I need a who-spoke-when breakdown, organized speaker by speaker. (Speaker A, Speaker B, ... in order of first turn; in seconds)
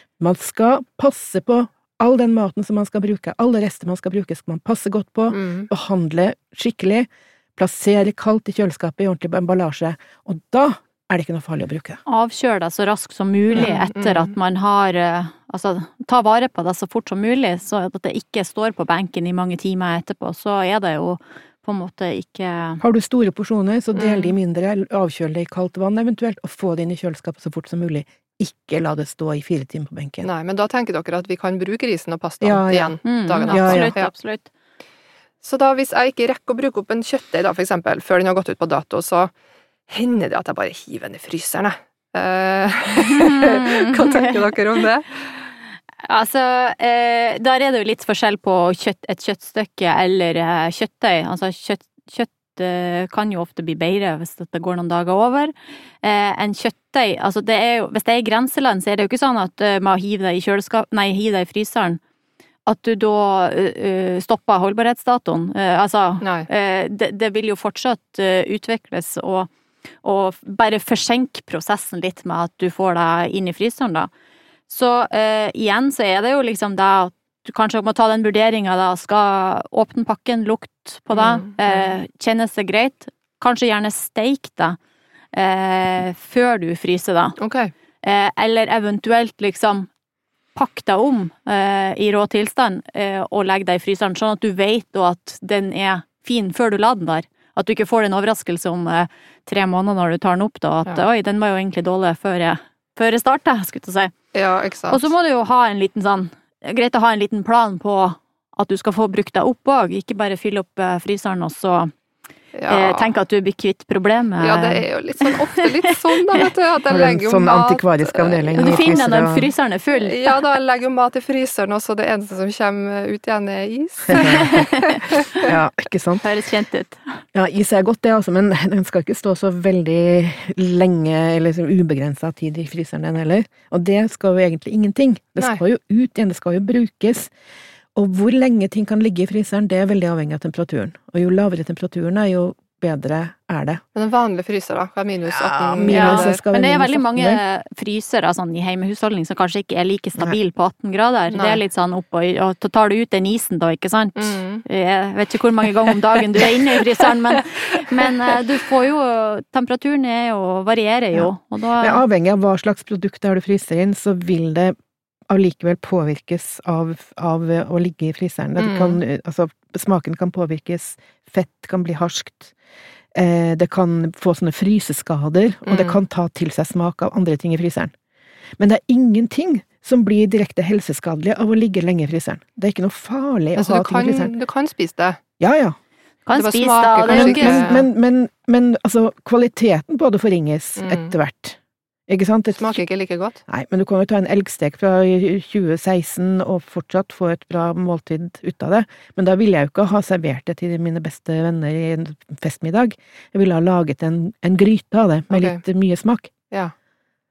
Speaker A: 0.2-12.0, 22.8-30.3, 32.4-33.0, 33.5-33.9, 116.9-119.5, 124.1-124.6, 125.4-126.2, 127.3-137.3, 137.9-143.8, 145.2-147.4, 161.1-164.7, 165.3-172.5, 173.1-177.9, 178.6-184.3, 185.4-185.8, 187.0-192.8, 193.5-206.3
Speaker B: 5.3-5.7, 13.6-14.3, 23.9-24.3, 30.2-34.1, 35.4-39.3, 39.9-45.1, 66.2-66.5, 81.1-81.8, 87.4-87.7, 104.3-105.1, 112.5-113.1, 114.4-119.0, 119.9-125.5, 143.9-146.4, 151.3-151.6, 154.2-154.6, 168.6-169.0, 175.7-176.0, 183.6-185.2, 186.3-187.8, 190.8-191.1, 192.6-193.4, 205.3-205.6
Speaker C: 12.1-22.8, 33.0-34.5, 43.0-44.5, 46.0-62.0, 62.6-69.5, 70.0-74.1, 74.7-84.8, 85.3-87.4, 88.0-89.9, 90.5-104.2, 104.9-111.9, 112.7-116.4, 118.5-120.3, 124.2-125.0, 126.2-127.2, 145.8-162.0, 186.2-187.7